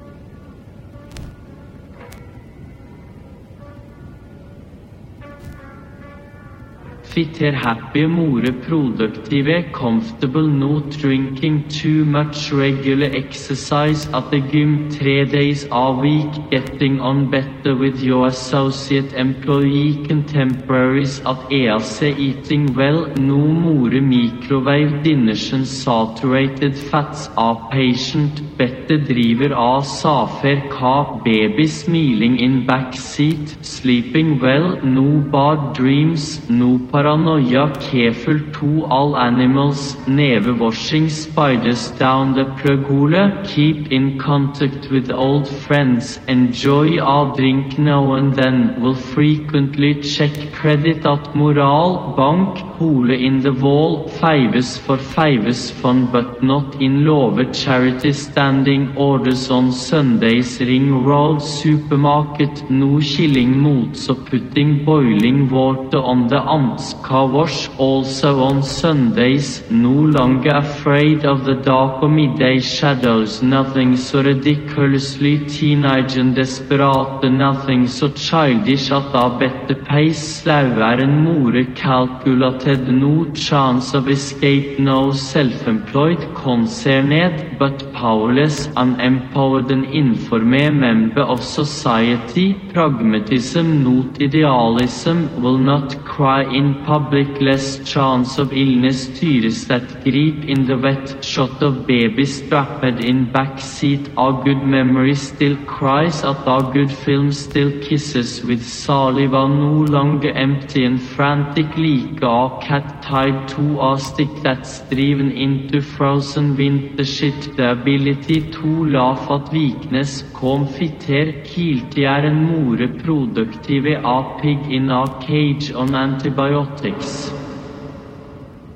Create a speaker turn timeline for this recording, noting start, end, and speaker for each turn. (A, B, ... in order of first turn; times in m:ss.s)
0:07.0-2:07.3 A